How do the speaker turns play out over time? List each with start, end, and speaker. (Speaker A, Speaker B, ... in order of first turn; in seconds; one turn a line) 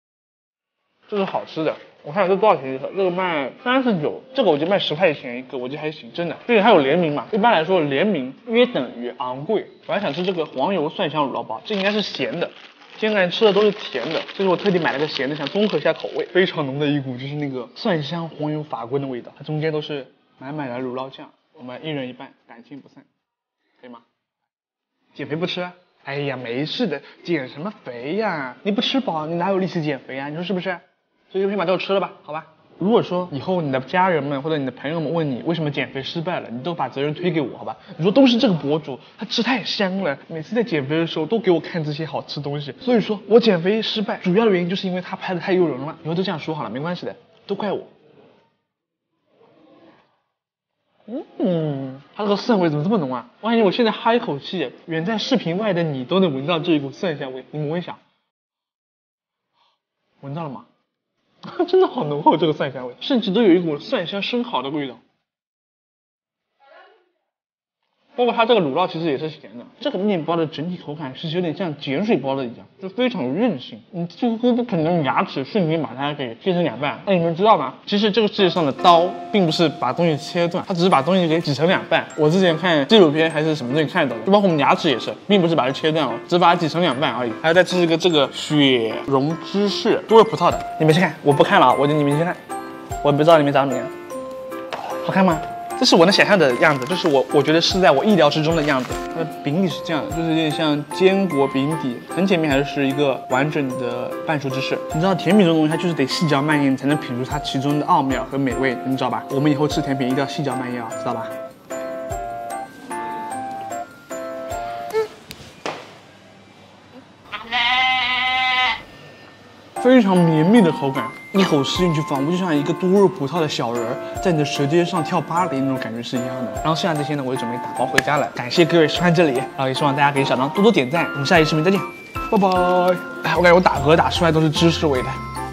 Speaker A: 1.1-23.1
Speaker A: 23.8-24.1
Speaker A: 25.1-47.9
Speaker A: 51.1-58.0
Speaker A: 60.2-60.7
Speaker A: 61.4-65.0
Speaker A: 68.2-92.4
Speaker A: 93.0-93.9
Speaker A: 95.0-111.3
Speaker A: 119.8-135.2